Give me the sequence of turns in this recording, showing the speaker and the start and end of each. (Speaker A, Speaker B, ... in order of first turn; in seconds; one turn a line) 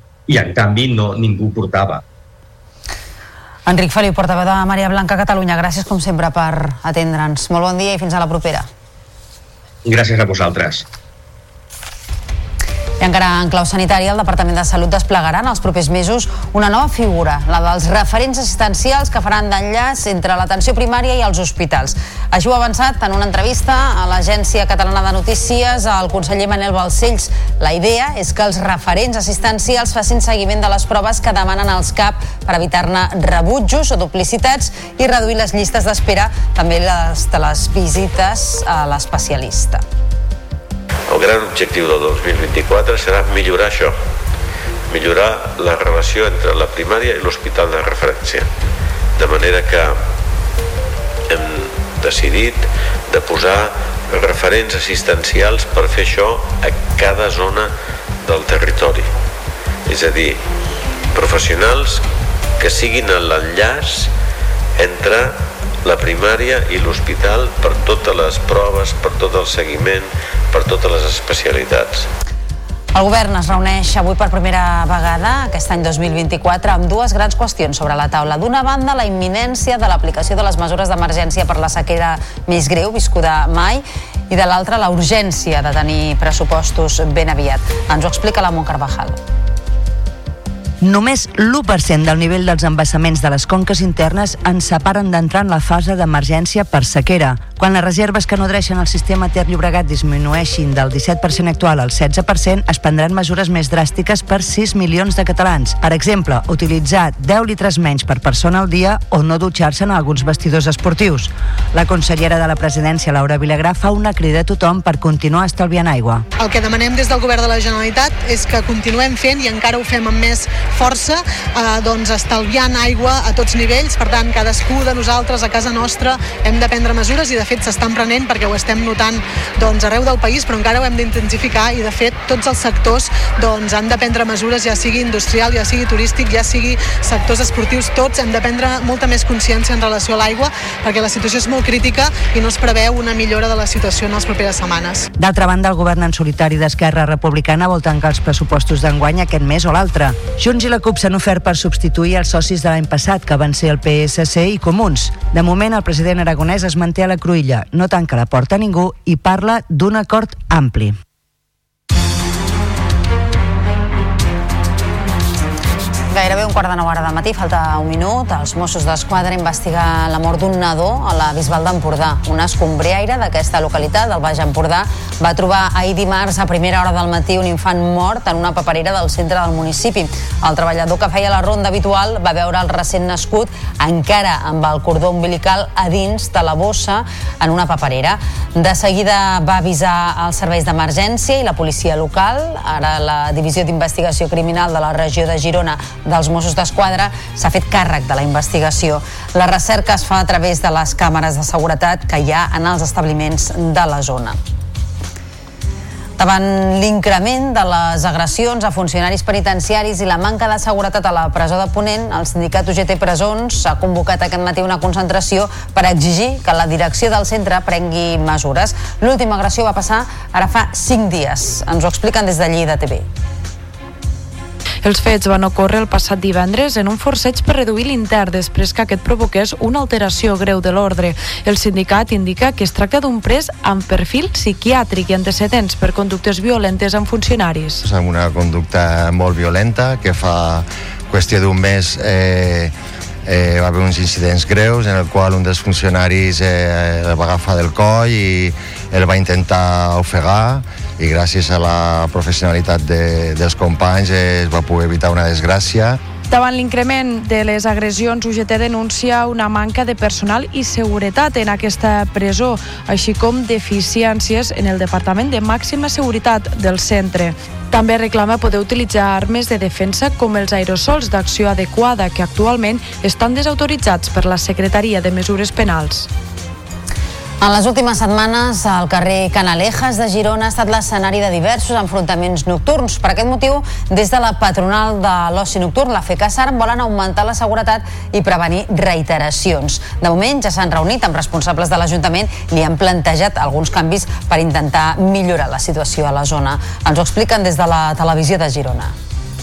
Speaker A: 0.3-2.0
Speaker B: 3.7-8.7
Speaker A: 9.8-10.8
Speaker B: 13.0-39.8
Speaker C: 41.1-44.0
Speaker C: 44.9-48.5
Speaker C: 49.2-50.0
Speaker C: 51.3-57.7
Speaker C: 58.2-59.1
Speaker C: 59.9-60.4
Speaker C: 61.1-62.0
Speaker C: 62.6-64.1
Speaker C: 64.8-72.1
Speaker B: 72.9-89.2
Speaker D: 90.8-116.2
Speaker E: 116.4-145.0
Speaker D: 145.2-160.9
Speaker B: 166.1-204.4
Speaker B: 206.2-223.1
Speaker F: 224.8-237.8
Speaker G: 237.8-242.7
Speaker G: 243.3-256.0
Speaker F: 256.3-276.1
Speaker B: 277.4-298.9